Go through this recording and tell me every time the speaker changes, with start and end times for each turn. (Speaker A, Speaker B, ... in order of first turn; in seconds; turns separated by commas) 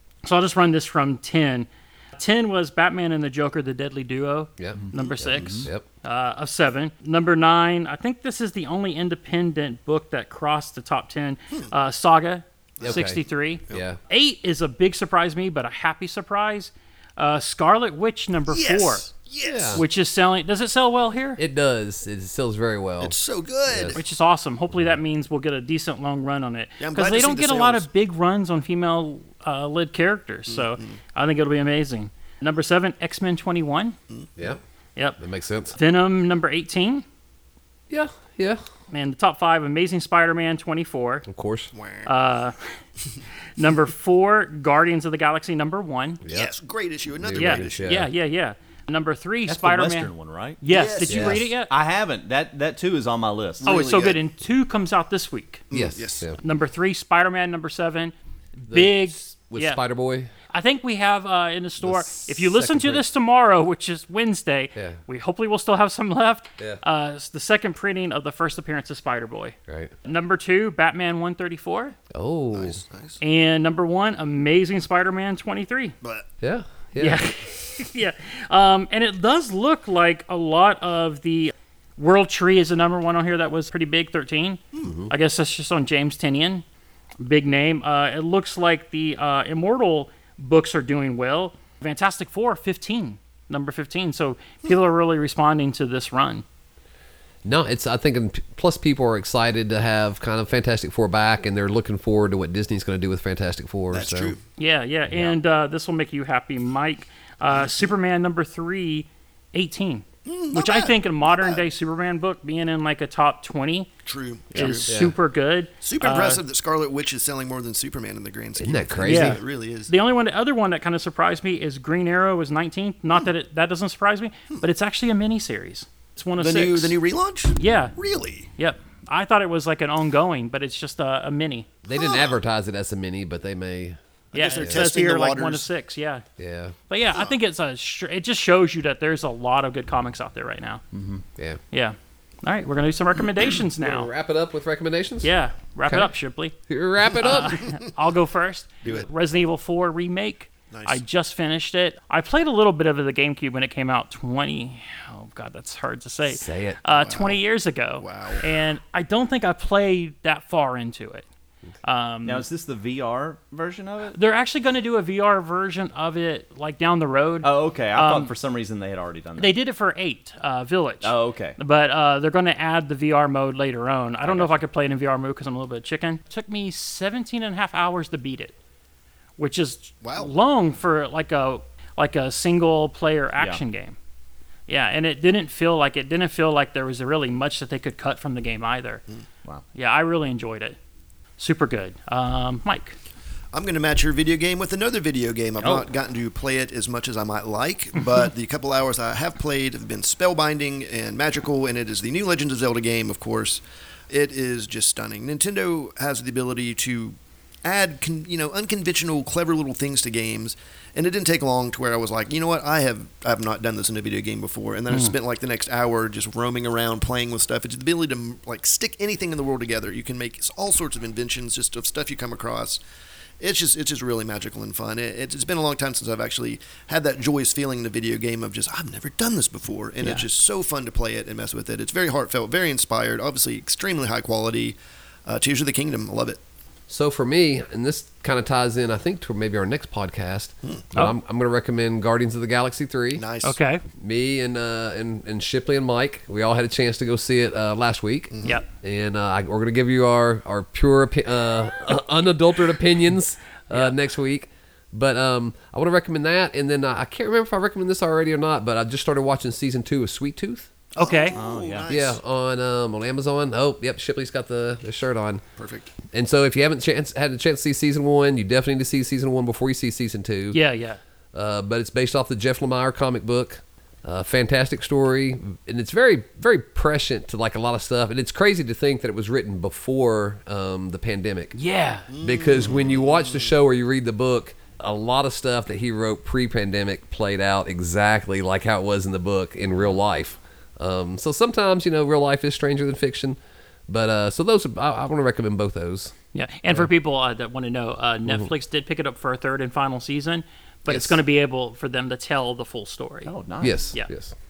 Speaker A: 0.2-19.1, Speaker B: 4.6-5.8, Speaker C: 5.4-5.7, Speaker D: 12.8-13.0, Speaker B: 12.8-13.2, Speaker B: 13.7-14.0, Speaker D: 18.5-19.8, Speaker B: 19.4-19.8, Speaker A: 19.7-21.4, Speaker B: 21.4-23.2, Speaker D: 23.0-24.1, Speaker B: 23.7-24.0, Speaker A: 23.9-34.0, Speaker D: 26.8-27.9, Speaker D: 30.5-31.0, Speaker B: 35.2-35.8, Speaker A: 35.8-37.0, Speaker B: 37.9-38.6, Speaker A: 38.9-41.2, Speaker B: 41.3-41.7, Speaker D: 41.7-42.1, Speaker A: 42.1-42.6, Speaker A: 43.6-46.2, Speaker B: 46.2-46.5, Speaker D: 46.3-47.9, Speaker B: 47.2-48.1, Speaker A: 47.4-50.1, Speaker C: 49.5-50.6, Speaker A: 50.6-51.7, Speaker D: 50.7-51.5, Speaker B: 51.0-51.4, Speaker C: 51.4-53.9, Speaker D: 53.6-54.2, Speaker A: 53.6-55.6, Speaker D: 55.7-56.3, Speaker B: 55.7-56.4, Speaker A: 56.4-59.8, Speaker B: 58.7-60.3, Speaker A: 60.5-72.0, Speaker B: 61.8-63.0, Speaker B: 72.1-72.8, Speaker D: 72.5-73.2, Speaker A: 73.2-76.0, Speaker D: 76.0-76.3, Speaker B: 76.4-77.2, Speaker A: 77.0-86.6, Speaker B: 84.8-85.1, Speaker A: 87.2-96.5, Speaker B: 97.5-104.3, Speaker D: 103.9-104.4, Speaker A: 104.6-113.9, Speaker B: 105.1-105.3, Speaker D: 110.3-111.6, Speaker D: 114.1-114.9, Speaker A: 114.5-116.4, Speaker B: 114.5-115.1, Speaker D: 115.8-119.9, Speaker B: 118.6-119.4, Speaker A: 119.0-127.0, Speaker D: 126.4-128.5, Speaker A: 127.6-128.0, Speaker A: 128.6-131.7, Speaker D: 131.9-132.4, Speaker B: 131.9-134.0, Speaker D: 134.3-135.7, Speaker A: 134.3-136.2, Speaker B: 136.4-136.8, Speaker A: 136.9-140.8, Speaker C: 140.9-141.2, Speaker A: 141.7-144.1, Speaker B: 143.8-145.3, Speaker A: 145.2-146.6, Speaker B: 146.7-147.7, Speaker A: 147.2-161.2, Speaker D: 147.3-147.7, Speaker D: 150.7-151.0, Speaker B: 156.3-156.8, Speaker D: 156.9-157.4, Speaker D: 158.0-158.5, Speaker A: 161.8-162.4, Speaker C: 162.2-164.2, Speaker A: 164.1-168.3, Speaker C: 167.4-169.6, Speaker A: 169.4-178.5, Speaker C: 171.0-171.6, Speaker C: 174.2-174.6, Speaker A: 179.4-183.9, Speaker D: 180.0-180.3, Speaker A: 184.7-189.0, Speaker A: 189.7-190.8, Speaker A: 191.4-193.0, Speaker D: 193.5-222.8, Speaker D: 223.4-236.4, Speaker B: 236.9-243.2, Speaker D: 243.2-243.6, Speaker A: 243.4-243.8, Speaker B: 244.0-260.7, Speaker D: 248.3-248.6, Speaker A: 253.7-253.9, Speaker D: 261.0-262.2, Speaker A: 261.0-261.4, Speaker C: 261.3-261.9, Speaker B: 261.9-265.4, Speaker D: 265.6-265.9, Speaker B: 266.1-270.6, Speaker A: 270.5-271.0, Speaker B: 271.3-281.5, Speaker A: 281.5-282.1, Speaker D: 282.1-283.5, Speaker B: 282.2-293.4, Speaker B: 293.9-296.1, Speaker A: 296.3-303.3, Speaker B: 300.9-301.2, Speaker C: 303.3-303.9, Speaker B: 303.6-304.3